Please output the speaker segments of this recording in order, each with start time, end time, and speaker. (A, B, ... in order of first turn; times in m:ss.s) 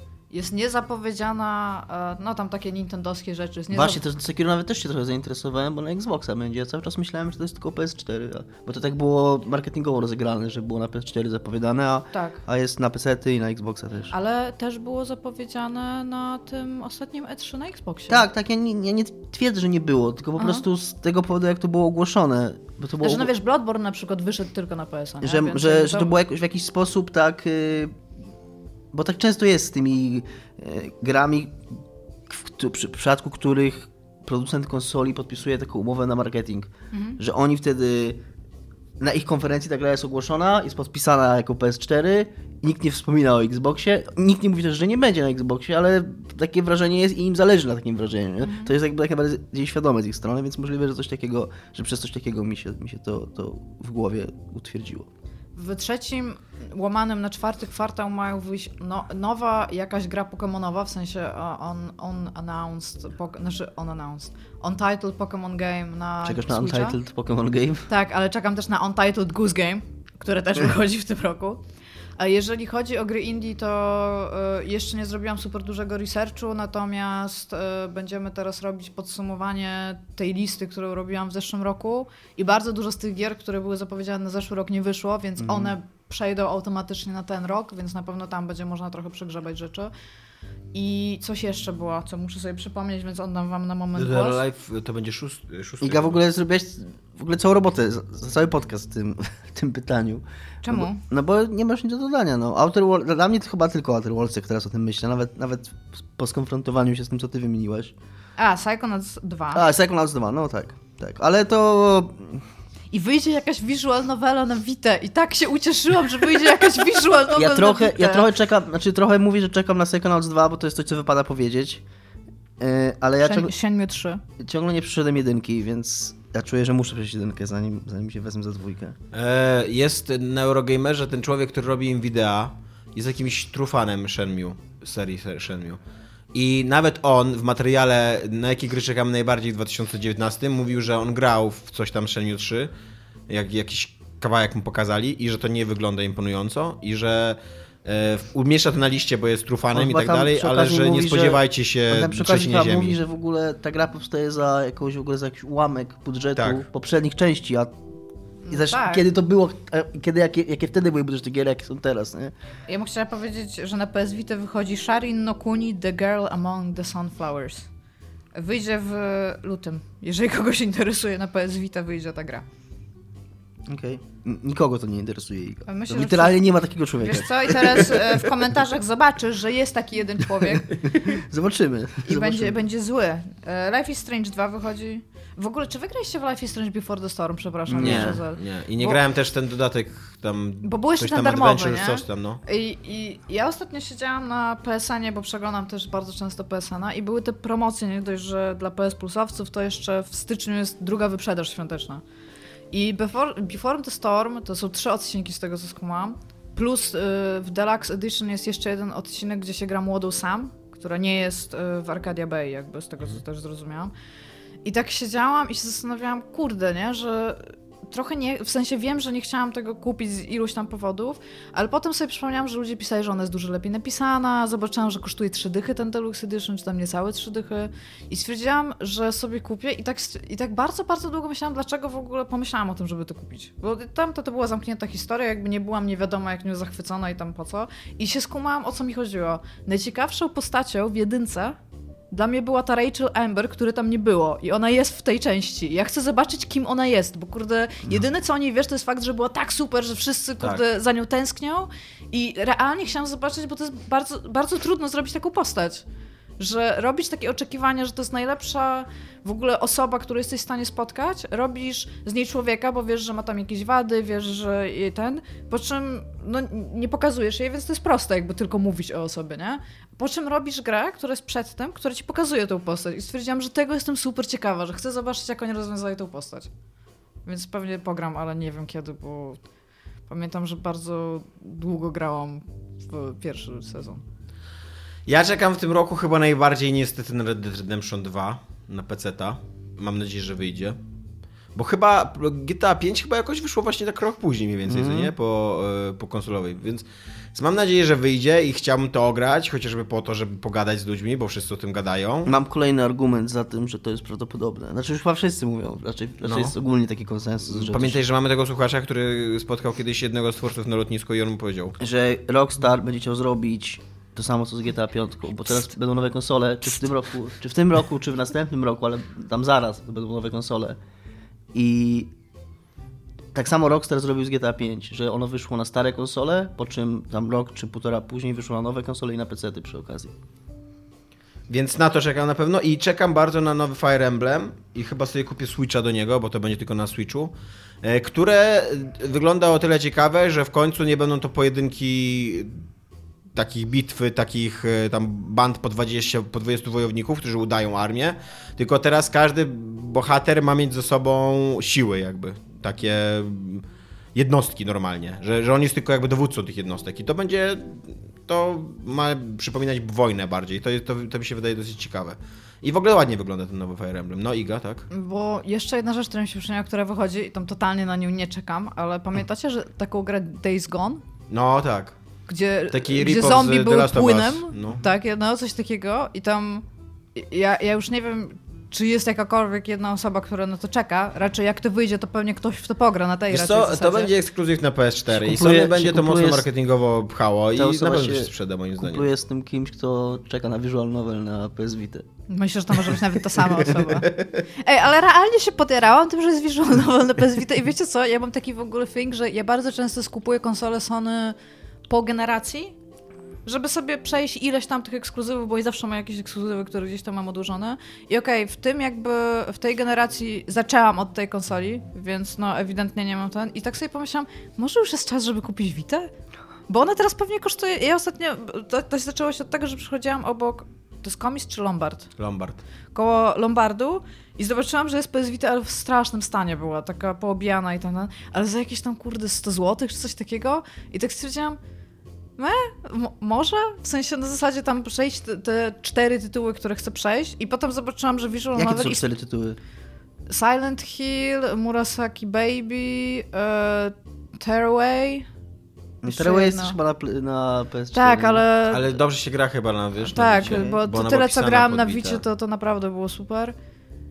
0:00.3-0:04.0 A
0:03.7-0:14.1 B
0:12.1-0:12.4 A
0:14.1-0:18.2 A
0:18.1-0:23.3 B
0:20.4-0:20.6 A
0:23.0-0:26.2 A
0:25.2-0:28.0 B
0:28.9-0:38.2 B
0:36.9-0:37.2 A
0:39.0-0:55.1 B
0:48.4-0:48.7 A
0:55.5-1:07.0 A
1:06.2-1:07.9 B
1:07.9-1:11.6 A
1:12.2-1:29.9 A
1:25.4-1:25.7 B
1:30.7-1:34.4 A
1:34.0-1:36.2 C
1:35.8-1:47.9 B
1:40.6-1:41.0 A
1:48.4-1:49.6 A
1:49.5-1:52.4 B
1:52.9-1:58.3 A
1:57.3-2:01.8 B
2:02.6-2:03.5 B
2:03.2-2:04.2 A
2:04.4-2:09.0 B
2:09.1-2:15.8 C
2:16.3-2:22.7 C
2:23.3-2:33.0 C
2:29.7-2:37.8 B
2:36.4-2:36.6 C
2:38.4-2:39.0 A
2:38.5-2:42.3 B
2:42.7-2:47.7 A
2:48.3-2:52.4 A
2:53.7-2:58.3 B
2:55.7-3:00.8 A
3:00.8-3:02.6 B
3:02.0-3:09.0 A
3:07.7-3:08.2 B
3:07.8-3:12.4 C
3:10.6-3:22.0 A
3:22.7-3:33.9 A
3:34.6-4:01.6 A
4:02.1-4:15.8 A
4:16.4-4:36.5 A
4:37.2-4:39.4 A
4:40.1-4:44.0 A
4:45.1-4:50.8 C
4:51.5-5:02.3 C
4:54.7-4:55.1 B
5:02.2-5:08.0 B
5:06.2-5:06.5 C
5:07.5-5:11.8 C
5:11.8-5:20.8 B
5:21.5-5:22.1 B
5:23.3-5:30.1 B
5:31.5-5:37.3 C
5:37.8-5:42.6 C
5:43.3-5:53.6 C
5:54.1-6:04.9 C
6:04.9-6:11.0 A
6:11.3-6:12.0 C
6:12.3-6:24.1 A
6:12.7-6:14.8 C
6:23.3-6:29.1 C
6:25.1-6:26.5 B
6:27.5-6:32.0 B
6:32.3-6:41.4 A
6:41.9-6:42.7 A
6:43.4-6:56.1 A
6:56.7-7:02.1 A
7:02.2-7:02.6 C
7:02.9-7:11.6 A
7:12.4-7:19.0 A
7:18.5-7:19.6 B
7:20.3-7:25.3 A
7:26.0-7:28.4 B
7:26.0-7:26.8 A
7:27.9-7:28.9 A
7:28.7-7:32.2 C
7:30.1-7:33.5 A
7:30.4-7:30.8 B